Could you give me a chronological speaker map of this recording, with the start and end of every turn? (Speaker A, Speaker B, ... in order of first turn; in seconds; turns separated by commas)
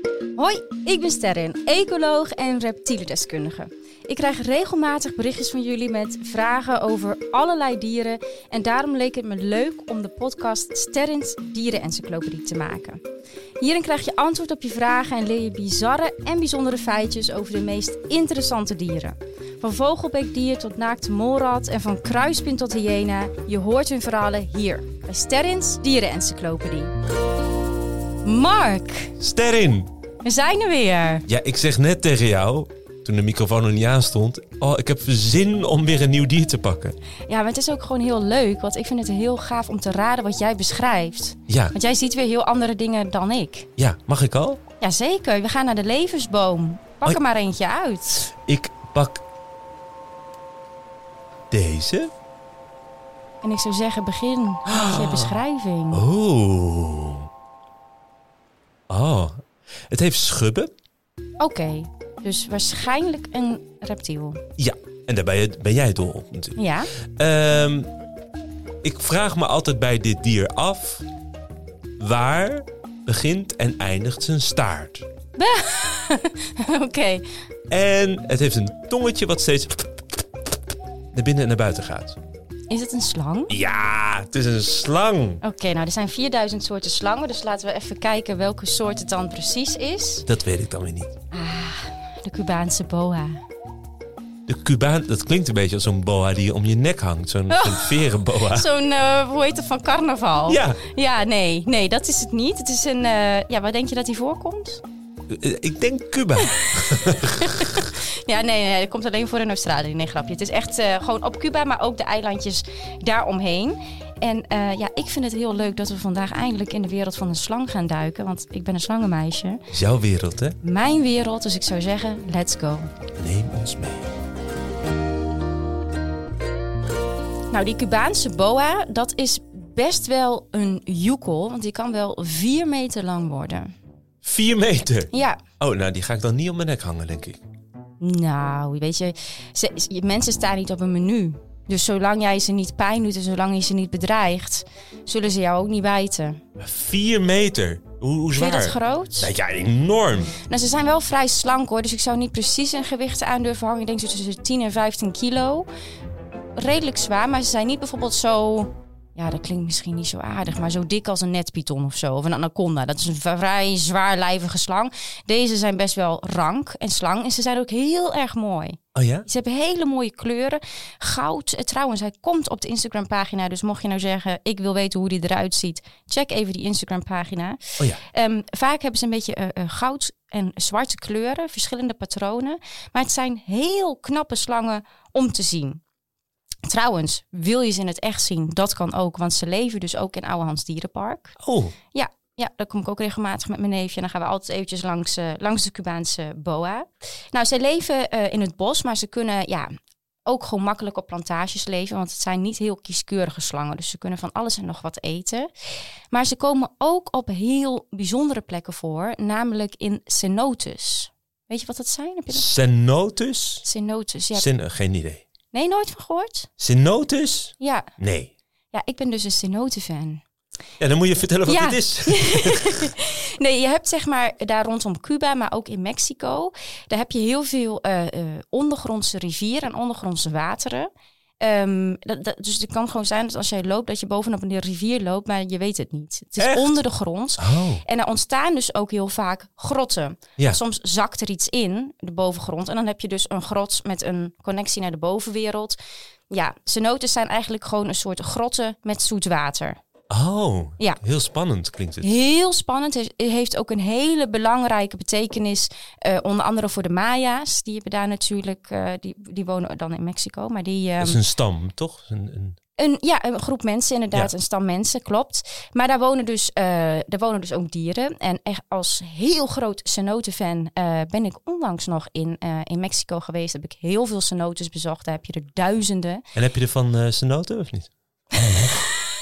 Speaker A: 0.3-13.0, Speaker A: 13.6-26.9, Speaker A: 28.2-29.1, Speaker B: 29.2-29.9, Speaker A: 30.2-31.2, Speaker B: 31.3-37.0, Speaker A: 37.3-43.7, Speaker B: 41.5-41.7, Speaker B: 43.8-44.6, Speaker A: 44.8-48.3, Speaker B: 48.5-49.2, Speaker B: 51.5-52.1, Speaker A: 53.4-56.0, Speaker B: 54.6-55.4, Speaker B: 55.9-57.3, Speaker B: 58.9-60.7, Speaker A: 61.4-64.4, Speaker B: 64.6-66.6, Speaker A: 66.5-66.9, Speaker B: 67.2-67.9, Speaker B: 68.8-71.0, Speaker B: 72.0-75.1, Speaker A: 75.4-77.2, Speaker B: 77.7-79.9, Speaker B: 81.1-82.2, Speaker A: 82.7-83.5, Speaker B: 83.5-85.4, Speaker A: 85.4-90.2, Speaker B: 90.3-91.1, Speaker A: 91.3-93.4, Speaker B: 94.5-98.7, Speaker A: 97.5-104.8, Speaker B: 100.5-100.8, Speaker B: 105.3-107.8, Speaker A: 106.5-119.6, Speaker B: 119.7-120.6, Speaker A: 120.6-122.9, Speaker B: 123.2-124.1, Speaker A: 127.5-133.7, Speaker B: 134.2-137.4, Speaker A: 135.1-135.4, Speaker A: 138.0-146.4, Speaker B: 146.6-150.3, Speaker A: 148.3-149.3, Speaker A: 150.4-155.7, Speaker A: 156.6-185.8, Speaker B: 168.9-169.2, Speaker A: 186.7-191.4, Speaker B: 191.4-191.7, Speaker A: 191.9-199.7, Speaker A: 200.2-205.5, Speaker A: 206.1-212.4, Speaker B: 212.3-213.6, Speaker A: 213.6-214.4, Speaker B: 214.3-215.2, Speaker A: 215.5-216.5, Speaker B: 216.6-218.3, Speaker A: 217.6-217.9, Speaker A: 218.7-220.2, Speaker B: 220.8-222.9, Speaker A: 221.5-230.9, Speaker A: 231.4-245.8, Speaker B: 236.4-236.8, Speaker B: 237.4-237.8, Speaker A: 246.3-249.8, Speaker B: 250.1-252.1, Speaker A: 252.0-261.2, Speaker B: 261.0-262.6, Speaker A: 262.8-276.2, Speaker B: 276.3-278.8, Speaker A: 278.4-278.9